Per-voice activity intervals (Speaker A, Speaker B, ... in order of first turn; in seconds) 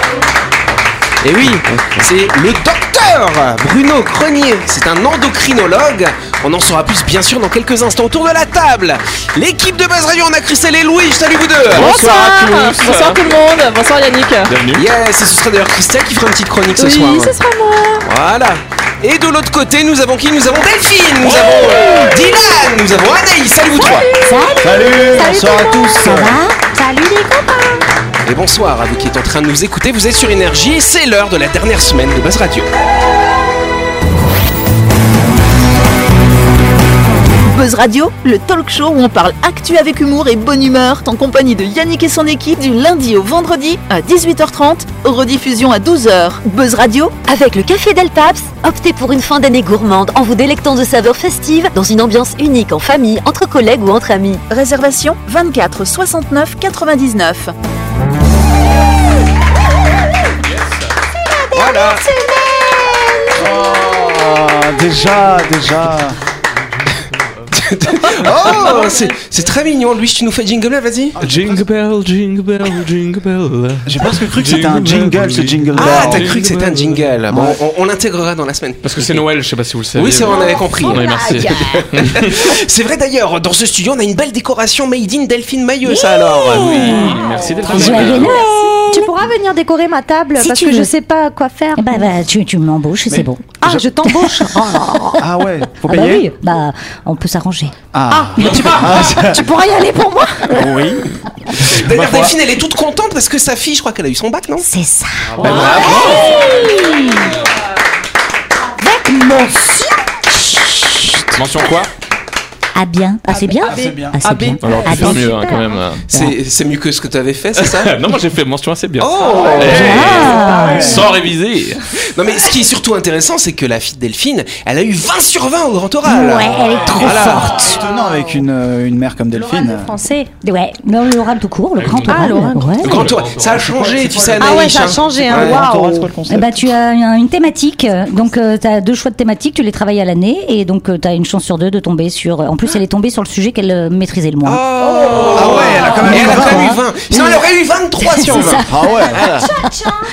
Speaker A: 1.2-11.9, 14.7-17.3, 18.0-24.1, 28.2-32.7, 61.5-62.0, 67.5-71.2, 75.8-79.2, 79.9-81.1, 81.9-87.0, 101.6-104.7, 116.1-117.9, 119.0-120.0, 122.1-127.7, 132.8-135.6, 144.4-149.5
Speaker B: 11.7-13.2, 14.4-14.8, 71.2-77.2, 78.8-82.4, 86.8-88.4, 105.4-106.2, 111.3-111.9, 114.6-116.3, 117.6-121.8, 131.8-133.9
Speaker C: 11.7-14.5, 16.8-18.1, 68.5-69.1, 113.7-115.3
Speaker D: 23.9-27.8, 81.0-81.5, 88.1-92.0, 93.6-95.2, 98.1-100.6, 129.5-130.3, 132.1-132.9, 134.4-136.1
Speaker E: 24.6-26.4, 63.3-66.2, 68.2-68.8, 71.2-71.7, 73.8-76.4, 77.3-77.6, 93.1-93.8, 95.2-96.3, 97.9-99.4, 100.5-101.0, 105.4-106.0, 113.6-114.2, 119.2-121.1, 127.0-129.9, 135.2-136.6, 145.3-146.7, 148.6-149.3
Speaker F: 26.2-26.5, 85.8-89.1, 90.4-90.8, 91.8-93.5, 95.9-97.8, 104.6-107.2, 108.8-109.7, 110.3-111.4, 112.7-115.6, 119.7-121.0, 126.0-127.8, 130.4-132.8, 136.3-145.3, 145.8-147.4, 148.0-149.4
Speaker G: 37.5-47.1, 54.5-57.5
Speaker H: 47.2-54.4